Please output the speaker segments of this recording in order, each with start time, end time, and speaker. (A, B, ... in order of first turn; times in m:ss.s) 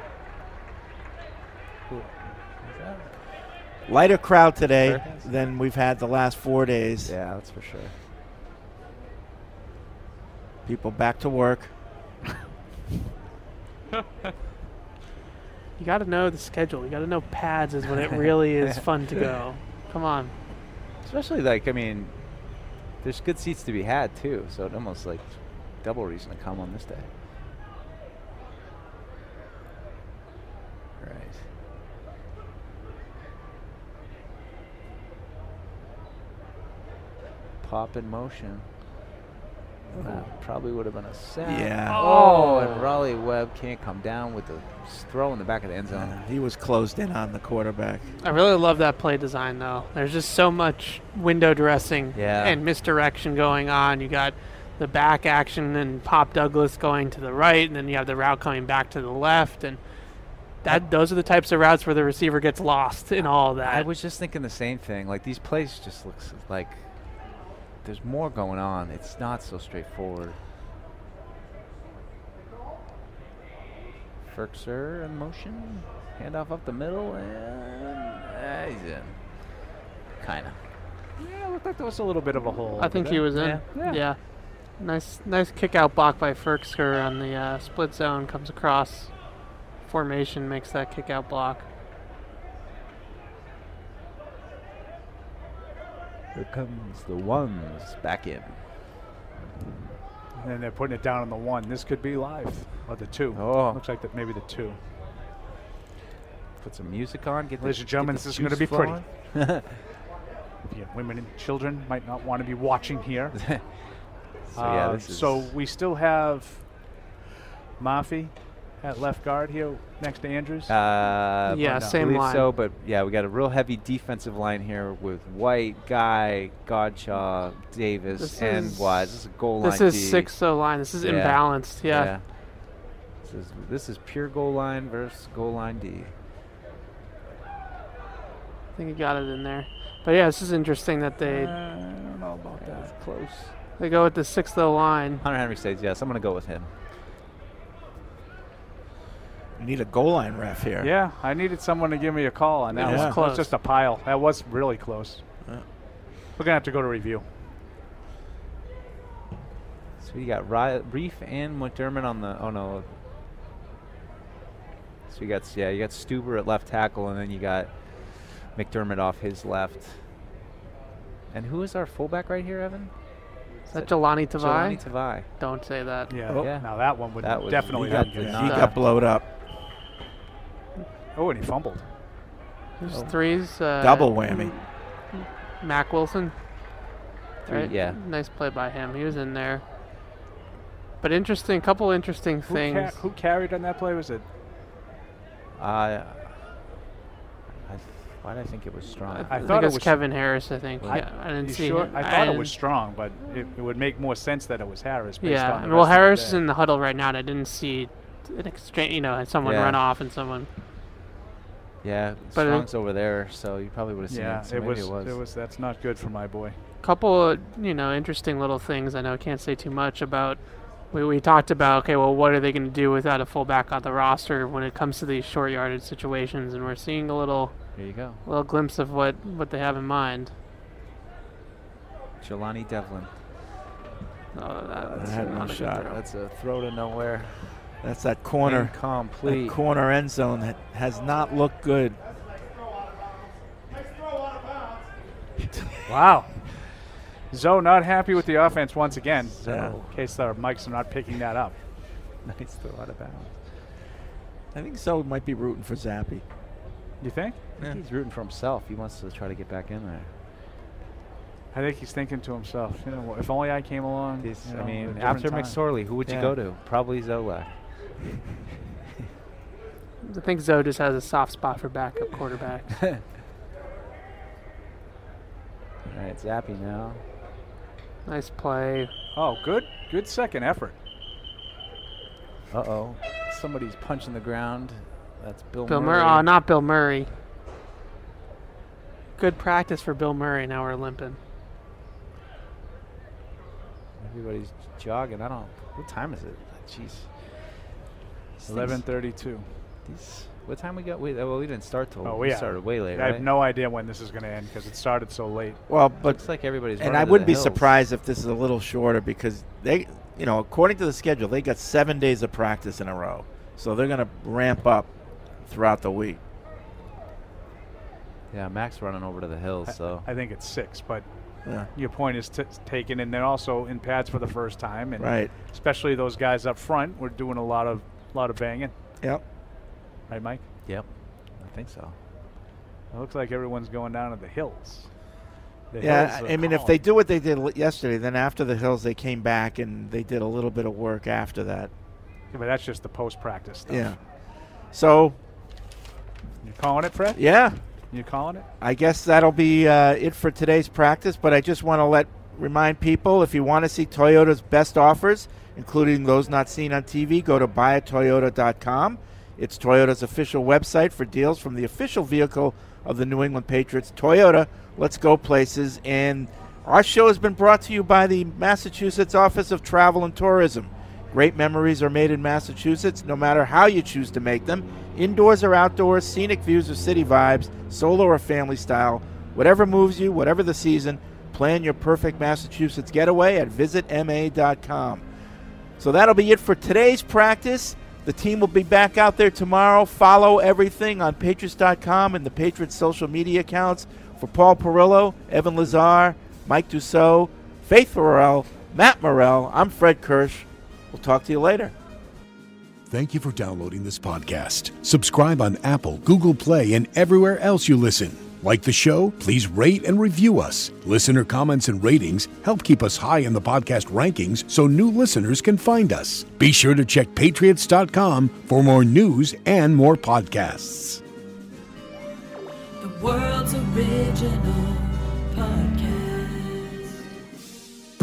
0:01.9-0:03.1 A
0:03.9-0:07.2 B
0:04.8-0:05.3 A
0:07.0-0:07.9 A
0:10.7-0:11.7 B
0:15.8-0:20.3 C
0:21.0-0:22.2 A
0:23.0-0:27.1 A
0:31.0-0:31.4 A
0:37.6-0:38.7 A
0:39.9-0:40.3 B
0:40.0-0:46.2 A
0:41.4-0:42.0 B
0:41.9-0:42.7 D
0:45.9-0:48.0 B
0:48.2-0:59.8 C
0:52.1-0:52.6 A
1:00.6-1:03.9 C
1:03.6-1:06.8 A
1:07.8-1:10.4 A
1:14.3-1:19.5 A
1:20.2-1:20.6 A
1:21.2-1:24.0 D
1:22.8-1:24.2 C
1:23.3-1:24.0 A
1:24.8-1:29.1 C
1:29.8-1:31.6 C
1:36.3-1:38.6 A
1:40.4-1:44.8 D
1:43.3-1:43.8 A
1:46.6-1:49.8 A
1:47.6-1:49.0 D
1:50.7-1:53.4 D
1:53.4-1:53.6 A
1:54.5-1:55.5 A
1:54.6-1:56.6 D
1:57.8-2:00.8 D
2:00.7-2:10.3 A
2:01.5-2:02.5 C
2:01.6-2:02.0 D
2:08.2-2:12.1 C
2:11.0-2:12.7 A
2:13.2-2:16.1 A
2:18.8-2:21.6 C
2:21.2-2:22.9 D
2:22.6-2:23.5 A
2:23.8-2:25.2 C
2:25.2-2:26.7 A
2:29.6-2:30.9 B
2:30.8-2:35.2 D
2:32.7-2:33.5 C
2:32.8-2:33.2 B
2:36.4-2:37.2 D
2:40.0-2:42.9 A
2:45.1-2:50.0 A
2:51.3-2:52.9 A
2:53.7-2:55.3 A
2:53.7-2:56.2 C
2:56.1-2:58.7 D
2:56.4-2:58.8 A
2:57.8-2:59.3 B
2:58.4-2:58.7 C
3:01.2-3:01.8 D
3:02.8-3:06.3 C
3:02.9-3:03.1 A
3:03.8-3:04.6 B
3:07.5-3:08.0 A
3:07.5-3:09.6 C
3:11.0-3:13.0 C
3:12.5-3:14.2 D
3:15.6-3:16.4 A
3:17.7-3:19.4 A
3:19.1-3:22.5 C
3:19.3-3:20.0 D
3:20.9-3:26.4 D
3:25.2-3:30.5 C
3:29.4-3:29.8 A
3:31.8-3:35.2 A
3:32.4-3:32.7 C
3:34.1-3:36.6 D
3:36.8-3:40.4 C
3:40.9-3:47.6 C
3:47.8-3:48.2 A
3:48.2-3:50.3 C
3:52.2-3:53.1 A
3:54.4-3:56.0 C
3:54.8-3:57.5 A
3:55.0-3:55.9 B
3:57.8-4:02.0 B
3:58.4-3:59.6 A
4:05.9-4:06.8 D
4:07.3-4:11.5 D
4:09.4-4:10.0 A
4:09.5-4:09.7 B
4:12.2-4:13.4 A
4:14.5-4:16.2 B
4:17.0-4:17.4 D
4:17.6-4:20.1 A
4:21.5-4:25.6 D
4:24.2-4:27.6 A
4:26.1-4:26.4 B
4:30.0-4:32.7 C
4:35.9-4:37.0 A
4:38.1-4:38.9 C
4:39.2-4:40.8 D
4:42.5-4:46.3 A
4:45.7-4:47.1 C
4:49.2-4:51.2 C
4:54.0-4:57.1 A
4:58.4-4:58.8 A
4:58.5-4:59.5 D
4:59.8-5:03.2 A
5:02.0-5:05.6 D
5:05.7-5:06.2 B
5:06.0-5:07.7 A
5:06.8-5:14.9 B
5:15.5-5:16.2 B
5:18.3-5:20.1 A
5:19.7-5:21.0 D
5:21.8-5:28.7 D
5:25.0-5:25.3 B
5:30.1-5:30.4 D
5:30.7-5:32.0 A
5:32.9-5:34.9 D
5:35.7-5:36.8 D
5:35.8-5:41.7 B
5:42.3-5:43.9 D
5:43.7-5:44.0 B
5:44.7-5:45.2 B
5:46.4-5:47.3 D
5:47.1-5:47.6 B
5:47.9-5:48.5 D
5:48.6-6:25.0 B
6:25.8-6:41.7 B
6:42.9-7:01.0 E
7:02.8-7:07.0 F